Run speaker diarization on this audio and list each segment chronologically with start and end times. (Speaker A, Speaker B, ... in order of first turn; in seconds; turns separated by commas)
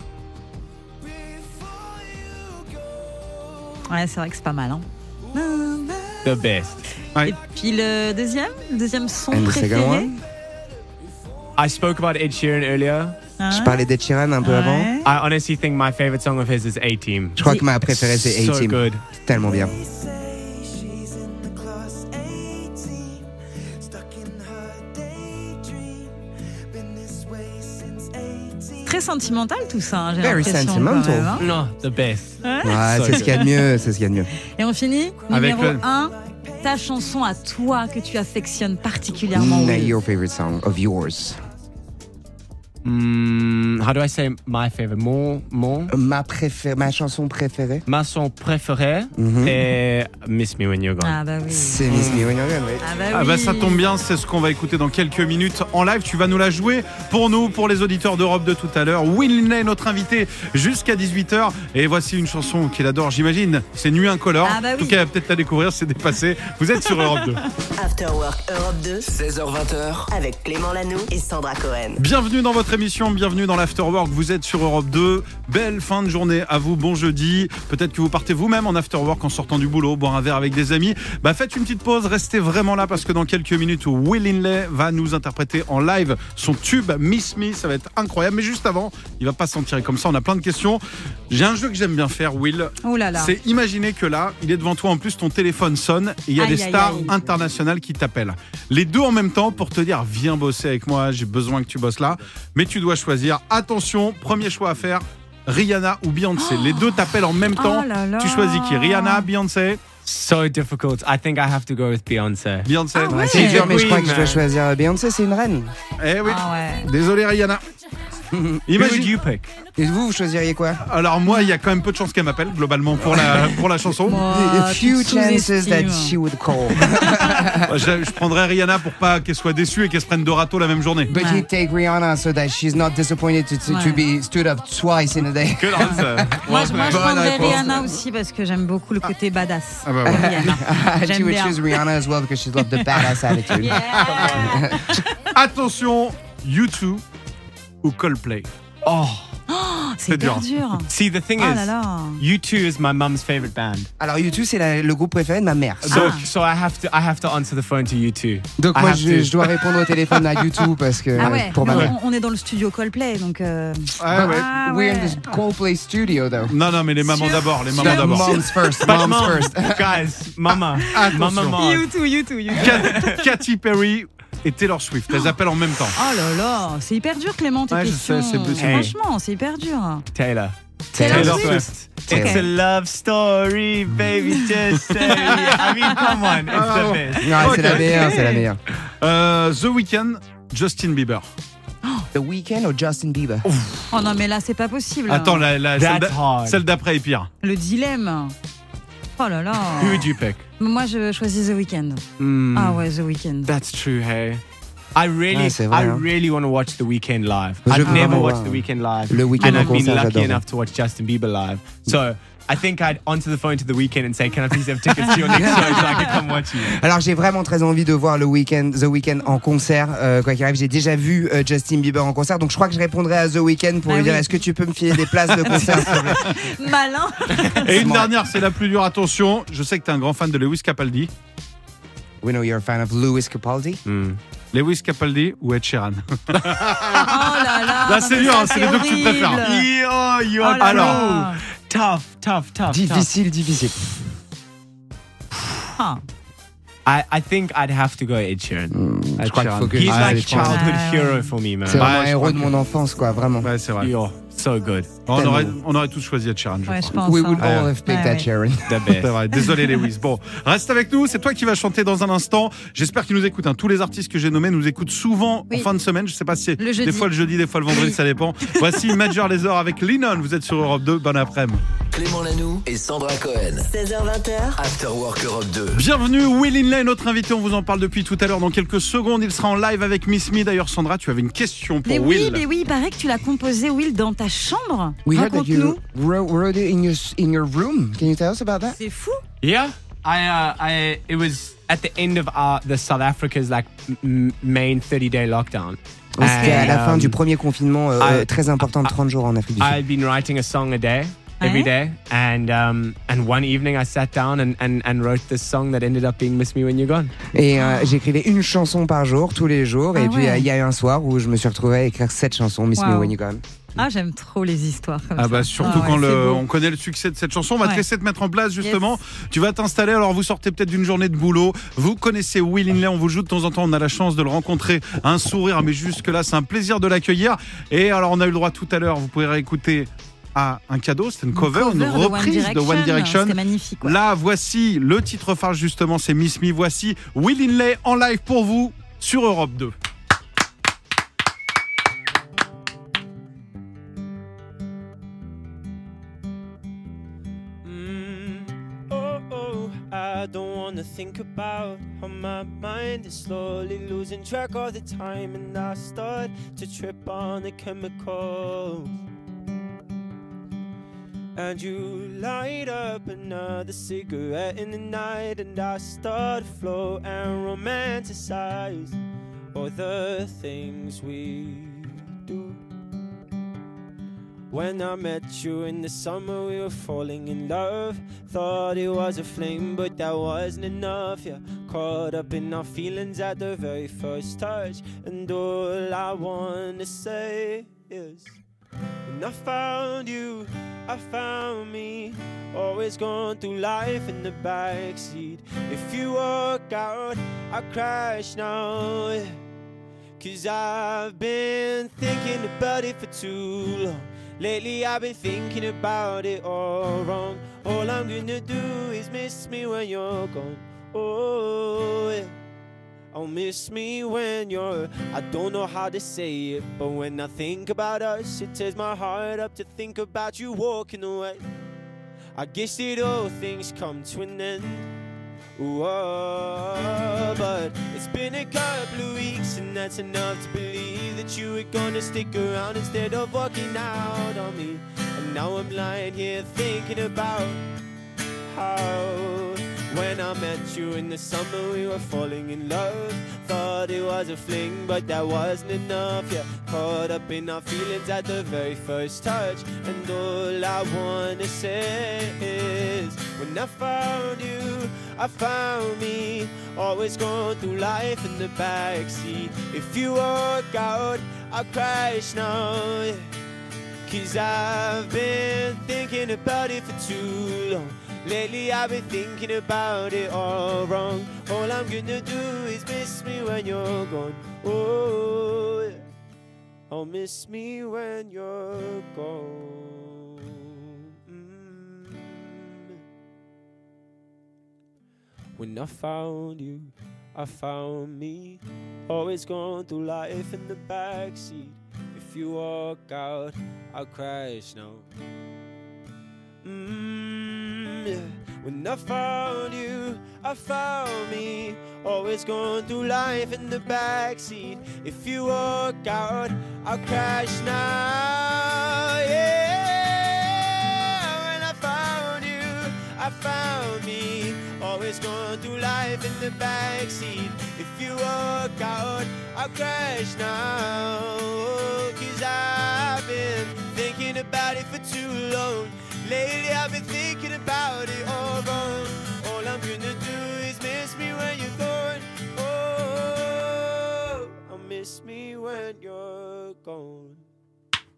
Speaker A: 3.9-6.3, Speaker B: 6.2-6.9, Speaker A: 7.2-10.1, Speaker C: 9.3-10.2, Speaker B: 11.6-13.2, Speaker A: 13.4-13.8, Speaker C: 13.5-14.9, Speaker A: 14.4-15.1, Speaker B: 15.0-19.0, Speaker C: 17.4-19.8, Speaker A: 28.9-31.4, Speaker C: 30.2-31.4, Speaker B: 31.4-33.4, Speaker A: 32.4-33.6, Speaker C: 32.6-34.3, Speaker A: 34.4-40.0, Speaker D: 35.3-35.8, Speaker C: 39.3-41.4, Speaker B: 42.9-45.9, Speaker C: 45.9-47.8, Speaker B: 47.9-51.2, Speaker C: 49.2-49.7, Speaker A: 51.0-51.8, Speaker C: 51.5-52.8, Speaker B: 51.9-52.3, Speaker A: 52.8-53.8, Speaker D: 53.1-67.4, Speaker A: 64.4-65.0, Speaker A: 66.9-67.2, Speaker E: 67.8-69.1, Speaker F: 69.0-70.1, Speaker E: 70.1-72.0, Speaker D: 72.0-109.8, Speaker A: 92.8-93.3, Speaker A: 96.4-97.1, Speaker A: 106.4-107.0, Speaker A: 107.6-109.3, Speaker B: 110.0-112.7, Speaker D: 112.7-114.0, Speaker A: 113.0-113.7, Speaker C: 113.1-115.7, Speaker B: 113.3-114.4, Speaker D: 116.0-117.6, Speaker A: 116.2-116.9, Speaker C: 118.3-118.7, Speaker D: 118.7-119.2, Speaker B: 118.7-119.5, Speaker C: 119.8-120.8, Speaker D: 120.8-124.2, Speaker A: 124.0-126.2, Speaker C: 124.1-127.8, Speaker A: 126.9-127.2, Speaker D: 127.6-131.1, Speaker C: 131.1-137.9, Speaker A: 131.1-131.5, Speaker A: 133.7-134.0, Speaker B: 135.6-137.4, Speaker A: 136.4-141.8, Speaker D: 139.9-140.5, Speaker C: 140.1-145.0, Speaker A: 143.5-145.2, Speaker D: 143.7-144.5, Speaker D: 145.3-147.0, Speaker D: 147.8-148.5, Speaker B: 148.8-149.3, Speaker A: 149.5-152.2, Speaker D: 150.1-150.5, Speaker B: 150.9-153.9, Speaker C: 154.0-156.1, Speaker B: 155.8-159.5, Speaker A: 155.9-156.2, Speaker C: 158.6-161.9, Speaker A: 161.2-165.2, Speaker D: 161.6-161.9, Speaker D: 164.0-164.5, Speaker C: 164.1-166.6, Speaker D: 166.5-169.4, Speaker A: 167.0-168.7, Speaker C: 167.7-170.0, Speaker B: 168.8-171.9, Speaker A: 170.8-173.2, Speaker D: 170.9-171.6, Speaker D: 172.6-176.0, Speaker B: 172.6-173.1, Speaker A: 175.9-180.1, Speaker D: 177.7-178.8, Speaker B: 178.6-178.9, Speaker B: 180.1-187.7, Speaker C: 180.9-182.4, Speaker A: 180.9-182.5, Speaker D: 181.1-181.6, Speaker D: 185.3-185.6, Speaker D: 186.5-188.4, Speaker C: 187.2-188.6, Speaker A: 187.9-188.3, Speaker D: 189.0-191.3, Speaker C: 192.1-193.5, Speaker A: 193.9-195.5, Speaker D: 195.1-197.3, Speaker B: 195.8-196.6, Speaker A: 197.4-198.3, Speaker A: 199.2-203.5, Speaker B: 199.8-200.4, Speaker B: 202.2-202.8, Speaker B: 203.4-204.4, Speaker B: 205.0-216.8, Speaker C: 205.3-206.1, Speaker C: 207.7-210.4, Speaker A: 207.9-208.2, Speaker A: 209.4-209.8, Speaker C: 215.3-216.1, Speaker C: 216.6-226.3, Speaker A: 223.9-224.4, Speaker A: 225.4-228.0, Speaker D: 225.5-226.3, Speaker C: 227.6-228.1, Speaker D: 227.6-231.1, Speaker C: 232.2-233.8, Speaker B: 233.8-234.2, Speaker D: 234.5-239.4, Speaker A: 236.9-239.7, Speaker B: 239.4-243.1, Speaker A: 240.4-241.4, Speaker D: 240.6-241.2, Speaker C: 242.7-243.8, Speaker B: 246.9-248.8, Speaker C: 248.7-250.6, Speaker D: 249.2-250.7, Speaker B: 249.3-251.9, Speaker A: 250.4-251.3, Speaker C: 251.7-253.5, Speaker D: 251.7-252.5, Speaker D: 253.4-253.9, Speaker B: 253.8-254.9, Speaker D: 255.1-257.7, Speaker C: 255.1-255.6, Speaker A: 256.7-258.3, Speaker C: 256.9-258.9, Speaker B: 258.7-259.1, Speaker D: 258.9-271.6, Speaker A: 266.6-267.1, Speaker A: 267.7-268.0, Speaker F: 271.9-273.7, Speaker E: 273.6-274.6, Speaker F: 274.6-275.9, Speaker D: 275.7-282.4, Speaker A: 281.9-285.8, Speaker C: 285.1-288.8, Speaker A: 288.7-289.2, Speaker B: 289.4-297.2, Speaker C: 296.2-299.8, Speaker A: 296.2-296.8, Speaker B: 298.0-298.9, Speaker B: 299.6-307.1, Speaker A: 301.4-301.7, Speaker C: 307.3-313.4, Speaker A: 307.6-307.9, Speaker A: 309.9-310.5, Speaker A: 312.8-313.1, Speaker A: 313.8-316.4, Speaker D: 315.2-339.7, Speaker A: 318.6-318.9, Speaker A: 331.3-334.0, Speaker G: 347.6-359.0, Speaker G: 361.4-369.0, Speaker G: 369.5-372.6, Speaker G: 374.5-388.4, Speaker G: 389.1-399.4, Speaker G: 400.2-412.4, Speaker G: 413.1-421.4, Speaker G: 422.4-424.9, Speaker G: 425.6-437.6, Speaker G: 438.5-463.3, Speaker G: 464.1-476.0, Speaker G: 476.9-483.0, Speaker G: 485.6-495.1, Speaker G: 496.6-537.4